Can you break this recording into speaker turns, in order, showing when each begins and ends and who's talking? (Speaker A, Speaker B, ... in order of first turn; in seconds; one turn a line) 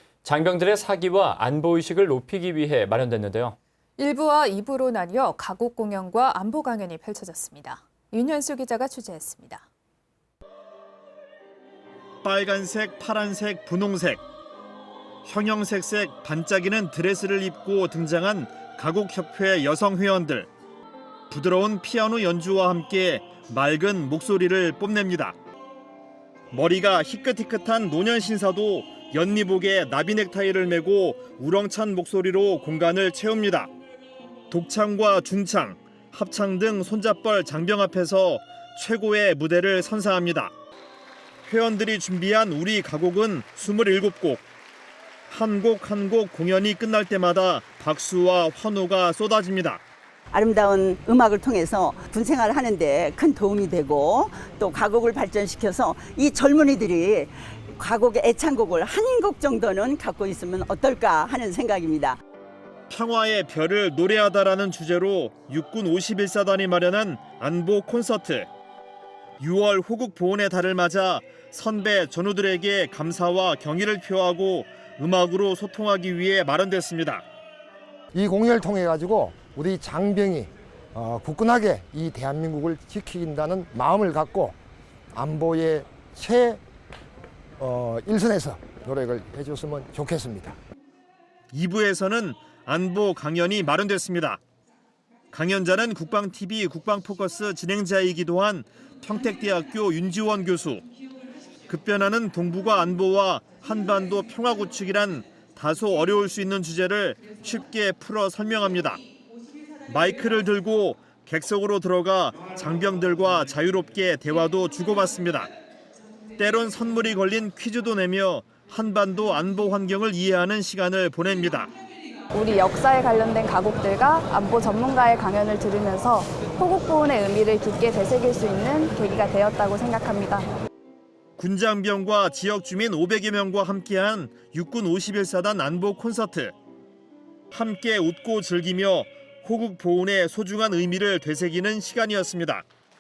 Speaker A: 0.2-3.6
Speaker B: 4.0-9.6
Speaker C: 12.2-14.2
Speaker C: 15.2-20.5
Speaker C: 21.3-25.4
Speaker C: 26.5-33.7
Speaker C: 34.5-40.5
Speaker C: 41.5-44.5
Speaker C: 45.3-49.8
Speaker D: 50.3-62.2
Speaker C: 62.9-68.5
Speaker C: 69.4-77.2
Speaker E: 78.1-84.5
Speaker E: 85.1-86.6
Speaker E: 87.6-90.6
Speaker C: 91.5-94.4
Speaker C: 95.3-100.9
Speaker C: 101.7-109.0
Speaker C: 109.9-115.5
Speaker C: 116.4-121.7
Speaker F: 122.3-130.5
Speaker C: 131.4-136.5
Speaker C: 137.5-142.7